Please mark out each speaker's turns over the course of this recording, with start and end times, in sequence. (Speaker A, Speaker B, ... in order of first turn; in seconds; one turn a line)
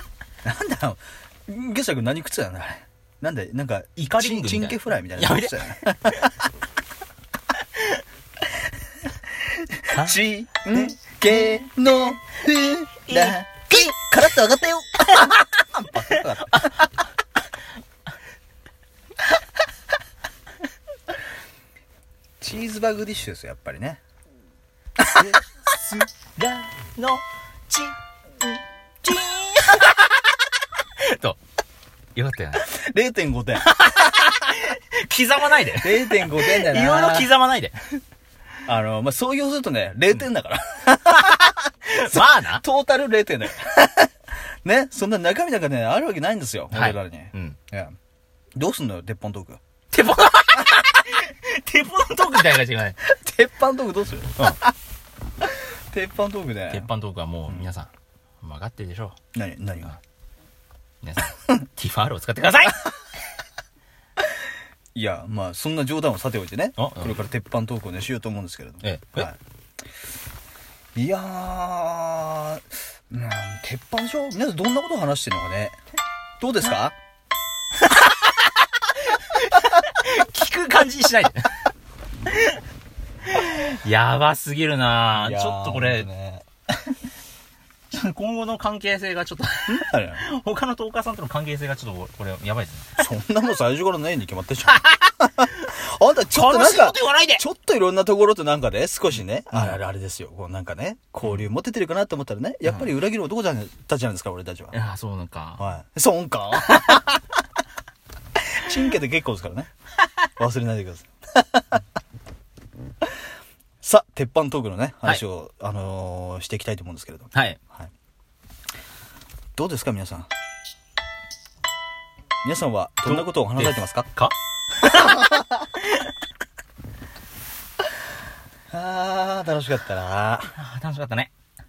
Speaker A: 0.4-6.2
Speaker B: 4.0-6.5
Speaker A: 9.5-16.7
Speaker B: 9.9-10.2
Speaker B: 10.7-11.6
Speaker B: 13.1-13.9
Speaker B: 15.0-16.9
Speaker A: 22.4-24.0
Speaker A: 25.0-25.4
Speaker B: 25.1-30.3
Speaker B: 31.0-31.4
Speaker B: 32.1-32.7
Speaker A: 32.6-33.7
Speaker B: 33.6-38.0
Speaker A: 35.8-37.3
Speaker A: 38.7-44.1
Speaker B: 41.9-42.6
Speaker A: 44.6-48.0
Speaker B: 46.7-47.6
Speaker A: 48.6-49.6
Speaker B: 49.9-53.0
Speaker A: 53.1-54.6
Speaker B: 54.4-54.6
Speaker A: 55.4-56.9
Speaker B: 56.7-57.9
Speaker B: 58.4-59.2
Speaker A: 59.3-60.0
Speaker B: 61.0-62.9
Speaker A: 65.0-69.4
Speaker B: 66.8-67.2
Speaker B: 68.8-69.3
Speaker A: 71.0-75.8
Speaker A: 76.4-77.0
Speaker B: 77.9-81.5
Speaker B: 82.3-82.6
Speaker B: 83.3-86.1
Speaker A: 85.1-86.5
Speaker B: 87.9-93.0
Speaker A: 89.7-90.2
Speaker A: 93.0-104.8
Speaker B: 94.7-95.7
Speaker B: 96.3-97.4
Speaker B: 99.5-99.8
Speaker B: 104.7-105.7
Speaker A: 105.6-107.2
Speaker A: 108.5-109.7
Speaker A: 110.4-111.8
Speaker A: 113.8-117.9
Speaker B: 117.3-117.6
Speaker A: 119.6-120.3
Speaker A: 122.4-124.1
Speaker B: 123.0-125.3
Speaker A: 125.0-125.4
Speaker A: 128.7-130.5
Speaker B: 130.5-131.3